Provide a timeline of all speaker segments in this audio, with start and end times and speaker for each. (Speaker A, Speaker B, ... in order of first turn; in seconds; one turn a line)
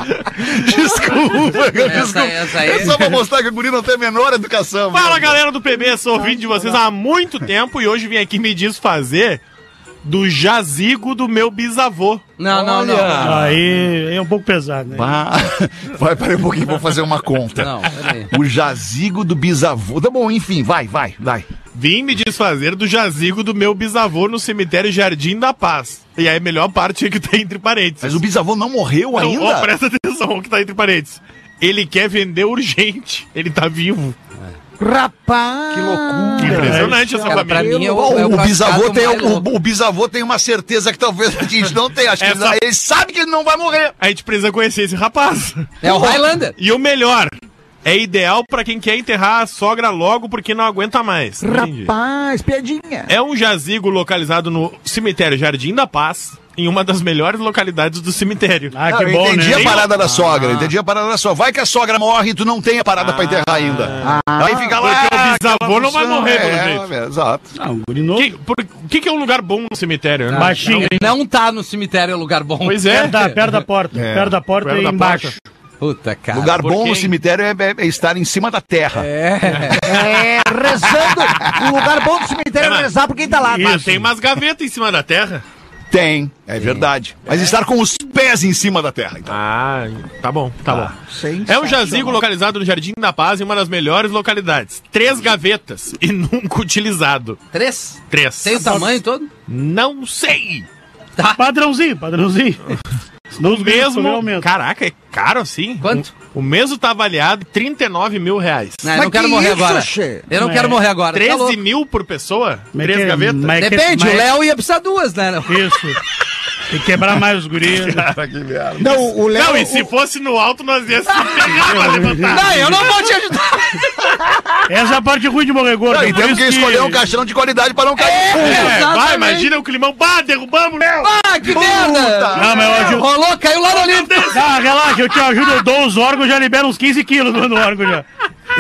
Speaker A: 0.3-5.4
Speaker B: 1.8-3.1
Speaker C: 4.9-9.4
Speaker C: 10.0-13.4
Speaker B: 12.4-13.4
Speaker A: 13.0-13.6
Speaker D: 13.2-15.1
Speaker A: 14.9-21.5
Speaker B: 17.6-18.3
Speaker C: 21.7-28.2
Speaker A: 28.0-29.7
Speaker C: 29.1-34.1
Speaker E: 34.8-38.4
Speaker A: 35.7-37.0
Speaker C: 36.4-37.8
Speaker D: 36.6-37.0
Speaker B: 37.2-39.5
Speaker A: 37.8-44.0
Speaker C: 42.2-42.6
Speaker C: 44.0-51.9
Speaker B: 45.8-46.6
Speaker E: 51.4-53.1
Speaker C: 53.1-58.8
Speaker D: 58.7-59.8
Speaker A: 58.9-67.5
Speaker C: 59.5-60.7
Speaker C: 63.0-64.2
Speaker E: 64.0-64.8
Speaker C: 64.8-66.9
Speaker D: 67.6-68.3
Speaker C: 68.2-71.1
Speaker B: 70.3-73.3
Speaker D: 70.3-71.1
Speaker C: 72.6-75.3
Speaker D: 72.9-75.4
Speaker B: 75.8-76.6
Speaker A: 76.3-79.1
Speaker C: 76.6-77.1
Speaker B: 78.9-80.0
Speaker C: 79.5-80.0
Speaker E: 79.8-83.9
Speaker C: 81.3-81.6
Speaker C: 82.6-82.9
Speaker C: 83.5-85.4
Speaker D: 83.5-84.1
Speaker A: 85.9-89.4
Speaker C: 89.3-97.4
Speaker E: 91.0-92.2
Speaker B: 97.5-99.3
Speaker C: 98.1-98.9
Speaker C: 99.5-100.7
Speaker B: 101.2-101.4
Speaker D: 101.4-102.8
Speaker D: 103.4-104.5
Speaker C: 103.4-108.9
Speaker B: 105.8-106.1
Speaker B: 108.8-111.6
Speaker E: 108.9-110.3
Speaker D: 110.4-110.8
Speaker C: 111.1-113.6
Speaker D: 112.7-114.3
Speaker B: 113.6-115.7
Speaker D: 115.5-116.0
Speaker D: 116.7-118.1
Speaker A: 117.8-119.0
Speaker E: 118.8-119.9
Speaker C: 119.2-122.8
Speaker D: 121.6-122.5
Speaker B: 122.3-123.8
Speaker D: 124.7-127.0
Speaker A: 125.9-128.8
Speaker B: 128.0-129.5
Speaker C: 128.3-131.1
Speaker B: 131.0-134.4
Speaker A: 131.4-133.0
Speaker D: 132.4-133.1
Speaker C: 133.8-134.3
Speaker D: 134.3-138.1